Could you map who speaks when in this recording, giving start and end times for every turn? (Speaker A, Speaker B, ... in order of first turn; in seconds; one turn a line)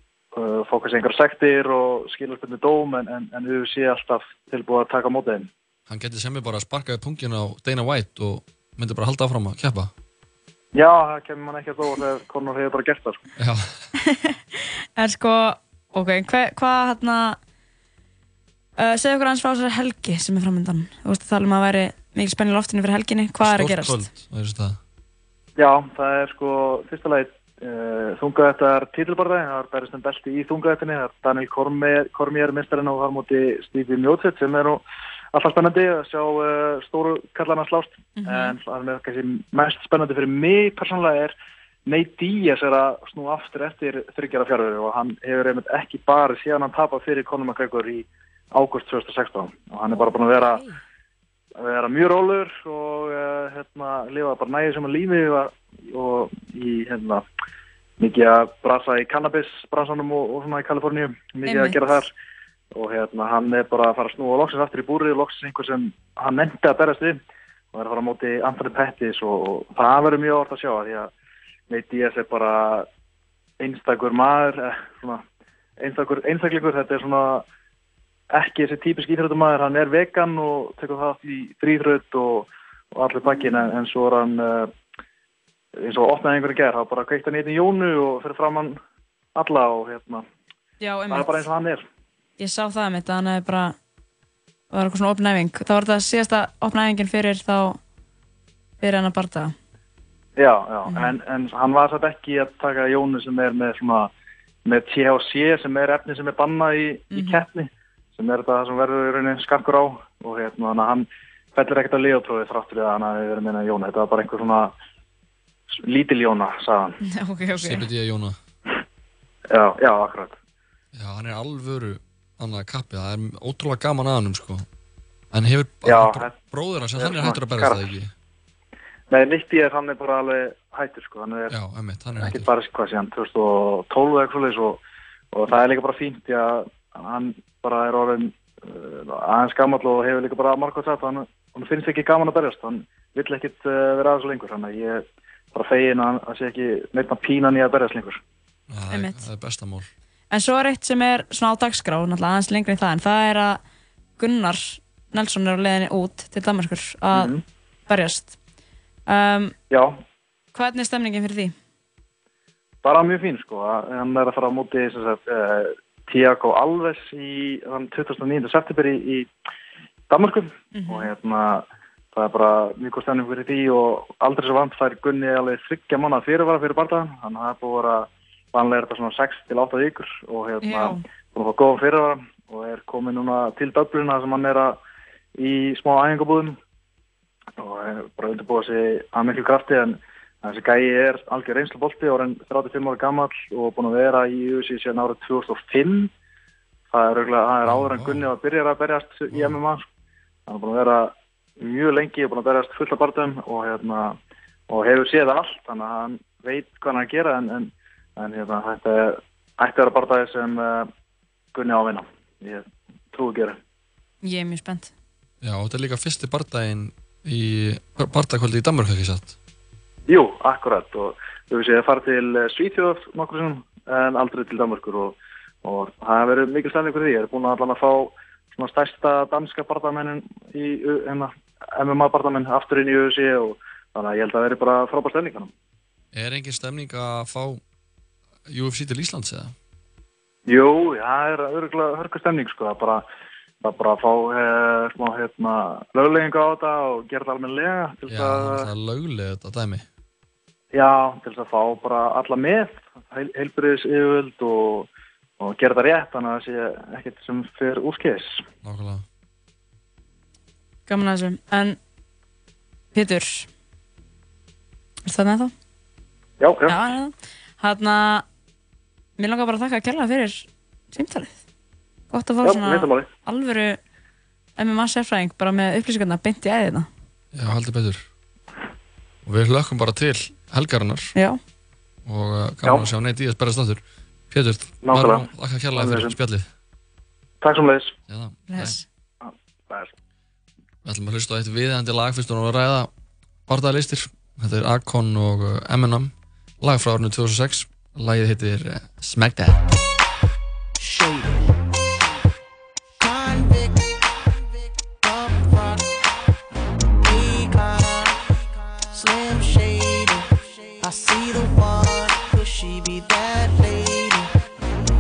Speaker A: 0.3-5.5
Speaker B: 5.9-9.9
Speaker A: 10.8-13.2
Speaker B: 13.4-13.8
Speaker C: 14.1-14.4
Speaker C: 15.0-17.4
Speaker C: 18.8-24.1
Speaker B: 23.4-24.8
Speaker A: 25.6-34.8
Speaker A: 35.3-41.4
Speaker C: 38.2-38.5
Speaker A: 41.9-50.6
Speaker C: 50.0-50.8
Speaker A: 51.6-57.2
Speaker A: 58.0-62.1
Speaker C: 61.5-61.8
Speaker A: 62.7-67.2
Speaker A: 67.7-71.1
Speaker A: 71.7-72.9
Speaker A: 73.6-75.2
Speaker A: 75.8-77.5
Speaker A: 78.3-84.7
Speaker A: 85.8-88.8
Speaker A: 89.4-90.2
Speaker C: 90.8-91.4
Speaker A: 91.1-91.8
Speaker C: 92.4-93.8
Speaker C: 94.7-97.8
Speaker C: 98.8-99.5
Speaker A: 100.4-104.1
Speaker A: 104.7-114.7
Speaker C: 107.1-107.4
Speaker A: 115.8-117.0
Speaker C: 117.0-117.8
Speaker B: 117.6-118.4
Speaker A: 119.5-120.3
Speaker B: 120.9-124.7
Speaker B: 125.3-128.1
Speaker A: 125.8-126.3
Speaker A: 127.0-127.8
Speaker A: 129.1-131.5
Speaker B: 131.5-132.5
Speaker A: 132.2-134.8
Speaker A: 135.3-148.2
Speaker B: 148.7-149.9
Speaker C: 148.9-149.2
Speaker C: 150.3-153.6
Speaker C: 154.2-157.3
Speaker A: 157.1-157.4
Speaker C: 157.9-158.3
Speaker C: 159.1-159.5
Speaker A: 159.7-160.0
Speaker C: 160.6-161.5
Speaker A: 162.8-169.3
Speaker A: 170.1-184.8
Speaker C: 170.8-171.1
Speaker C: 180.6-181.0
Speaker A: 185.4-186.6
Speaker A: 187.6-196.1
Speaker A: 196.9-199.8
Speaker B: 197.7-198.3
Speaker A: 200.5-204.2
Speaker A: 204.7-210.9
Speaker A: 211.5-213.6
Speaker C: 214.2-214.9
Speaker B: 215.4-219.3
Speaker A: 220.1-235.5
Speaker B: 236.1-237.6
Speaker B: 238.5-239.6
Speaker A: 240.5-243.0
Speaker A: 243.6-248.7
Speaker B: 248.1-249.8
Speaker A: 250.7-254.9
Speaker A: 255.4-258.4
Speaker B: 258.6-259.1
Speaker C: 260.9-261.8
Speaker C: 262.9-263.5
Speaker C: 265.1-265.5
Speaker A: 266.4-266.8
Speaker C: 266.7-268.2
Speaker C: 269.2-271.3
Speaker C: 272.1-273.8
Speaker A: 272.4-273.1
Speaker C: 274.6-276.9
Speaker B: 277.3-278.1
Speaker B: 279.2-281.1
Speaker B: 282.1-286.5
Speaker A: 284.8-286.1
Speaker A: 287.4-287.9
Speaker B: 288.1-288.8
Speaker C: 288.5-288.9
Speaker A: 289.2-289.9
Speaker B: 290.8-292.9
Speaker B: 293.5-299.6
Speaker D: 303.0-305.9
Speaker D: 307.0-314.3